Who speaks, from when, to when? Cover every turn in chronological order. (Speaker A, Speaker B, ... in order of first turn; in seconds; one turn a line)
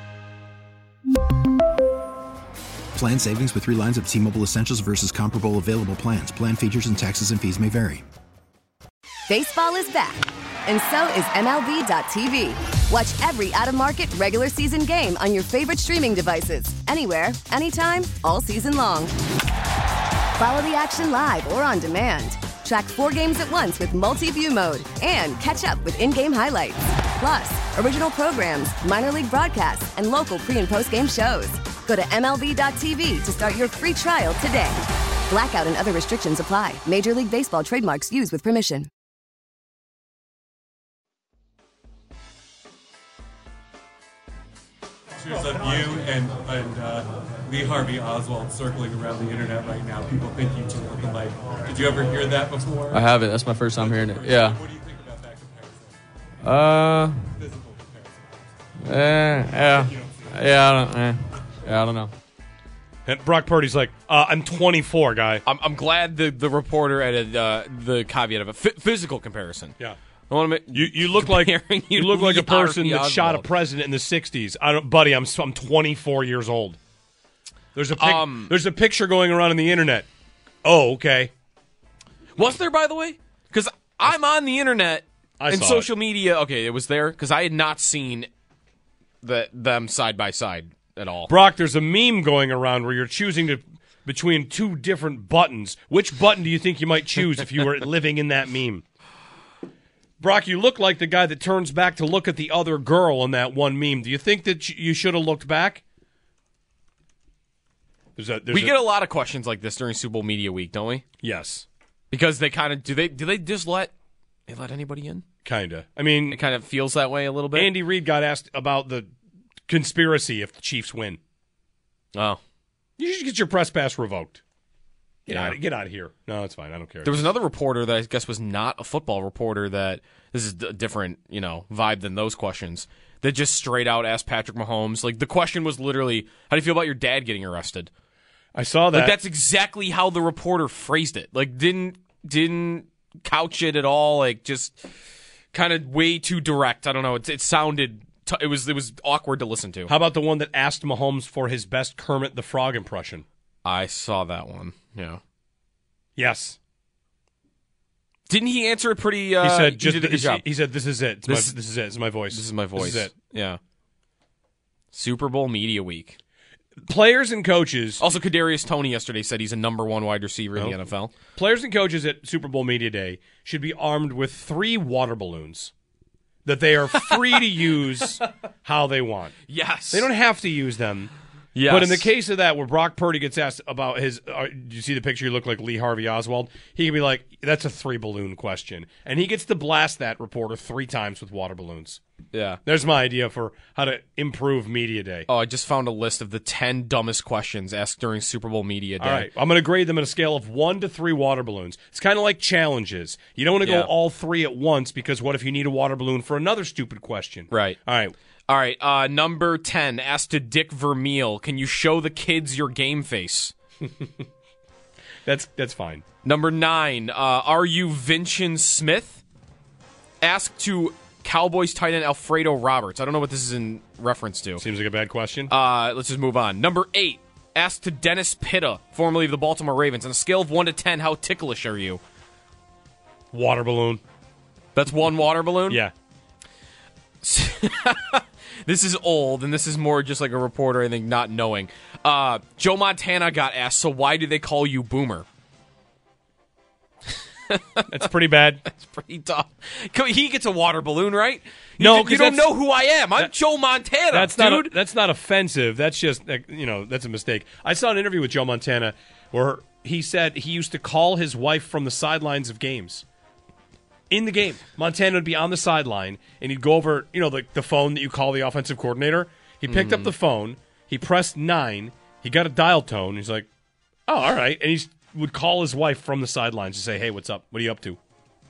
Speaker A: 2.9-8.0
Speaker B: 9.3-19.1
Speaker B: 20.4-38.9
Speaker C: 45.2-53.1
Speaker D: 52.9-54.6
Speaker C: 53.8-55.9
Speaker D: 56.4-57.3
Speaker C: 57.4-58.4
Speaker D: 58.8-62.1
Speaker E: 63.0-65.4
Speaker F: 65.5-69.8
Speaker F: 70.3-73.5
Speaker E: 70.7-76.8
Speaker E: 77.7-80.1
Speaker F: 78.0-78.5
Speaker E: 80.6-81.3
Speaker F: 82.4-88.3
Speaker E: 85.4-85.9
Speaker F: 89.2-91.3
Speaker E: 91.3-98.8
Speaker E: 100.2-105.8
Speaker E: 108.2-108.7
Speaker F: 108.5-111.0
Speaker E: 111.2-111.7
Speaker F: 112.1-113.9
Speaker F: 114.5-115.2
Speaker E: 115.4-116.4
Speaker F: 116.3-117.7
Speaker E: 117.5-119.1
Speaker E: 119.7-121.2
Speaker F: 122.1-122.4
Speaker E: 123.0-124.4
Speaker E: 125.3-127.2
Speaker F: 125.3-125.6
Speaker F: 127.0-137.9
Speaker E: 138.5-139.1
Speaker F: 138.9-144.9
Speaker F: 145.5-149.9
Speaker E: 149.9-153.2
Speaker F: 153.6-155.2
Speaker E: 156.2-156.6
Speaker F: 158.3-160.4
Speaker E: 159.4-163.1
Speaker F: 161.2-161.5
Speaker F: 162.3-163.6
Speaker F: 164.9-166.2
Speaker E: 166.8-168.0
Speaker F: 168.0-171.1
Speaker E: 171.3-175.7
Speaker E: 176.4-179.4
Speaker F: 177.1-177.6
Speaker F: 179.5-180.1
Speaker E: 179.9-181.1
Speaker F: 181.5-182.1
Speaker E: 181.7-192.0
Speaker F: 192.3-192.6
Speaker E: 192.6-195.3
Speaker F: 195.3-199.3
Speaker E: 199.0-208.1
Speaker F: 203.6-203.9
Speaker F: 207.5-207.8
Speaker F: 208.5-213.5
Speaker E: 215.2-216.0
Speaker F: 216.2-219.2
Speaker F: 220.2-224.6
Speaker E: 224.6-225.5
Speaker F: 225.5-232.0
Speaker E: 233.3-234.0
Speaker F: 234.7-235.8
Speaker F: 237.2-245.2
Speaker F: 247.5-247.9
Speaker E: 247.9-248.6
Speaker F: 248.7-254.8
Speaker E: 251.8-252.6
Speaker E: 254.1-263.0
Speaker E: 264.1-273.5
Speaker F: 269.6-270.1
Speaker E: 274.1-278.0